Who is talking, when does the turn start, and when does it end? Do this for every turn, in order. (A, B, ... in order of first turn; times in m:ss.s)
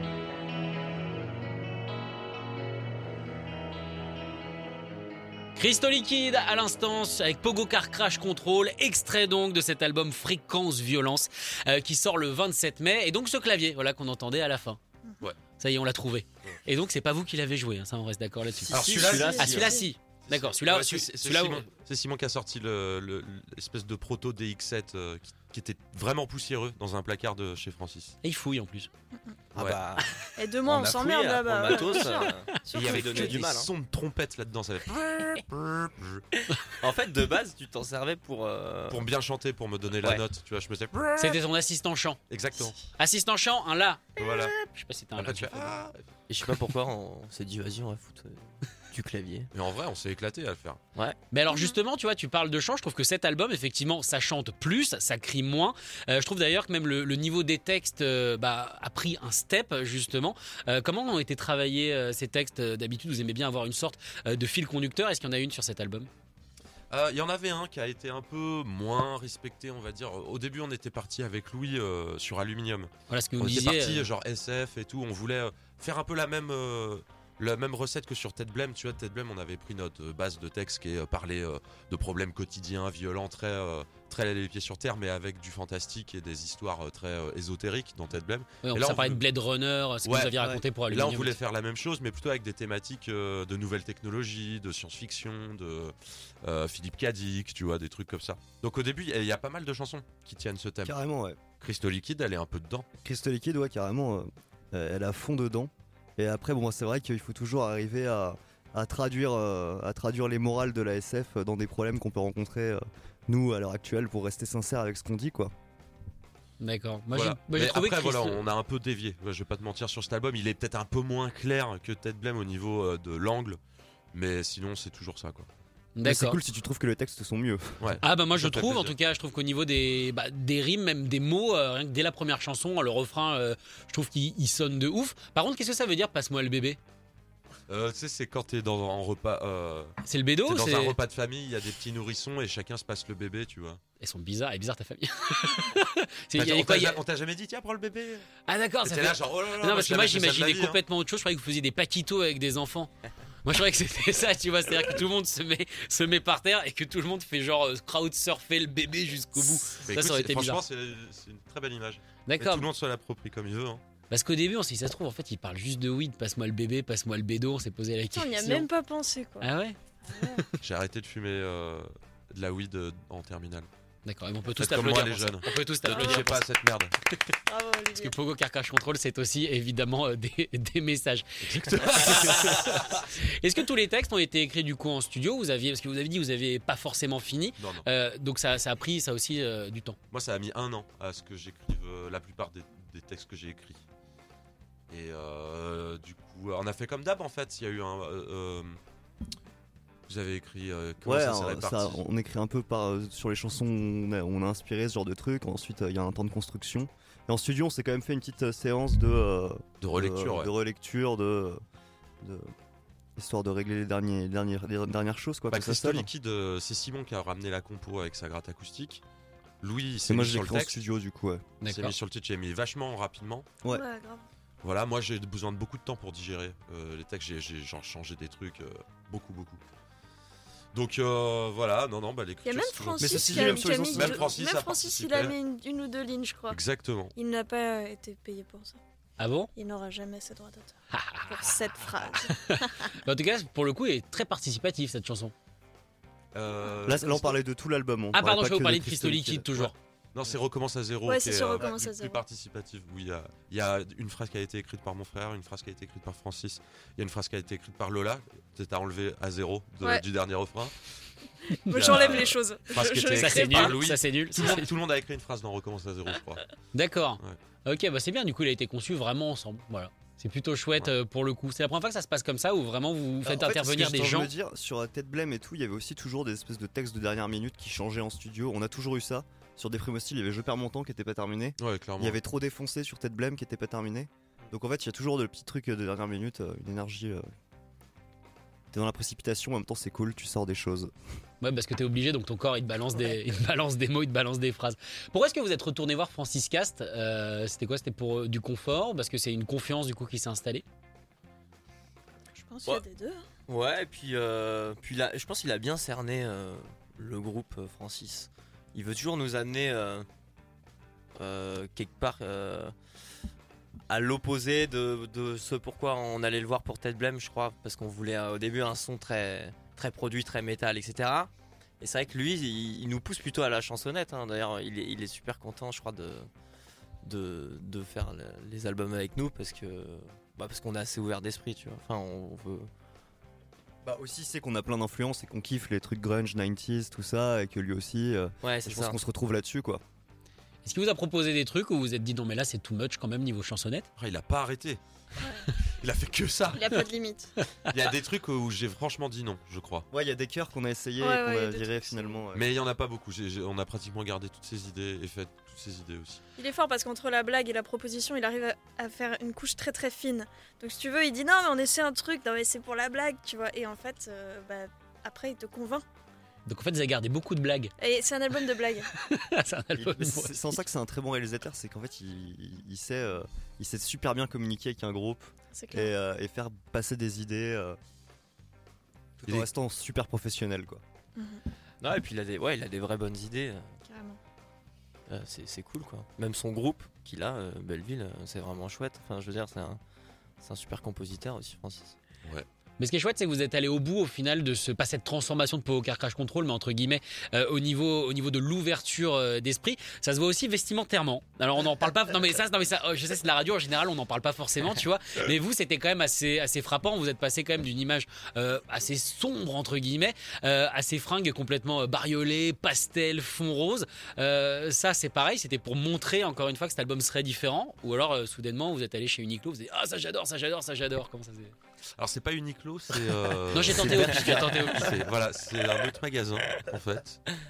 0:05.6-0:14.8 A
0:15.6-0:21.6 A
0:18.7-0:19.7 B
0:18.7-0:19.8 C
0:19.1-0:19.8 D
0:20.3-0:28.2 C
0:28.2-0:28.9 A
0:29.6-0:30.1 B
0:29.6-0:29.8 C
0:30.4-0:33.4 D
0:30.6-0:33.7 B
0:32.7-0:36.2 C
0:36.8-0:39.0 B
0:38.9-0:41.4 C
0:41.2-0:42.2 A
0:42.3-0:42.8 C
0:43.0-0:45.7 A
0:44.2-0:44.6 C
0:45.2-0:46.0 C
0:46.3-0:49.5 B
0:49.5-0:50.8 C
0:51.3-1:06.1 A
0:51.5-0:51.8 D
1:06.9-1:29.2 C
1:13.1-1:14.1 A
1:28.6-1:31.4 A
1:30.0-1:41.0 C
1:40.8-1:41.4 E
1:41.6-1:42.9 C
1:43.0-1:55.5 E
1:56.6-1:58.4 A
1:57.1-2:03.6 C
2:04.1-2:05.5 C
2:06.0-2:06.4 A
2:06.0-2:07.9 E
2:07.8-2:09.0 C
2:08.0-2:16.8 A
2:17.7-2:23.8 C
2:20.0-2:21.0 A
2:24.0-2:27.0 A
2:26.4-2:28.3 C
2:28.5-2:32.9 A
2:28.8-2:30.8 C
2:33.4-2:40.6 A
2:39.8-2:43.8 C
2:42.3-2:42.7 A
2:44.1-2:48.7 A
2:48.1-2:49.5 D
2:49.4-2:50.5 A
2:50.1-2:50.4 D
2:50.6-2:53.7 C
2:54.0-2:56.4 A
2:54.5-2:56.9 C
2:55.9-2:56.3 D
2:57.5-2:58.2 D
2:58.0-3:10.0 A
3:01.4-3:03.0 C
3:07.6-3:07.9 C
3:10.1-3:13.8 C
3:14.9-3:18.8 C
3:20.1-3:22.0 C
3:21.0-3:31.6 E
3:29.8-3:30.5 C
3:32.2-3:32.5 E
3:33.2-3:36.1 E
3:35.5-3:39.0 C
3:39.6-3:40.8 C
3:40.1-3:41.4 E
3:41.6-3:42.0 A
3:41.7-3:43.5 C
3:43.7-3:44.2 D
3:44.6-3:49.6 C
3:50.7-3:55.4 C
3:52.4-3:56.6 D
3:53.0-3:54.3 E
3:56.5-3:57.1 C
3:57.2-3:58.8 D
3:59.2-3:59.5 A
3:59.6-4:02.9 D
4:00.9-4:05.3 A
4:06.3-4:07.4 C
4:06.9-4:09.7 E
4:08.1-4:09.8 A
4:10.1-4:20.8 C
4:11.1-4:12.2 D
4:21.5-4:23.8 D
4:21.7-4:22.1 A
4:21.7-4:26.5 C
4:23.2-4:24.7 A
4:26.7-4:34.3 A
4:33.2-4:47.2 E
4:41.6-4:42.2 C
4:48.7-4:50.9 E
4:51.4-5:00.6 A
5:02.3-5:03.2 D
5:03.5-5:10.1 B
5:11.2-5:12.7 B
5:13.9-5:26.3 B
5:27.0-5:32.7 B
5:33.8-5:39.8 E
5:38.4-5:39.0 B
5:40.6-5:43.9 A
5:44.0-5:44.8 C
5:45.2-5:45.5 D
5:45.8-5:46.7 C
5:46.5-5:47.3 D
5:47.7-5:49.9 C
5:49.9-5:52.5 E
5:51.0-5:52.2 D
5:52.3-5:56.2 C
5:56.4-6:05.8 D
6:06.5-6:07.7 A
6:07.8-6:08.9 D
6:09.0-6:10.6 A
6:09.8-6:17.8 E
6:15.6-6:15.9 D
6:19.2-6:20.8 E
6:21.2-6:21.4 D
6:21.8-6:23.7 B
6:23.9-6:24.2 D
6:25.1-6:29.8 B
6:30.4-6:32.0 B
6:32.8-7:01.6 A
7:02.0-7:07.2 C
7:03.5-7:04.9 A
7:03.8-7:04.6 B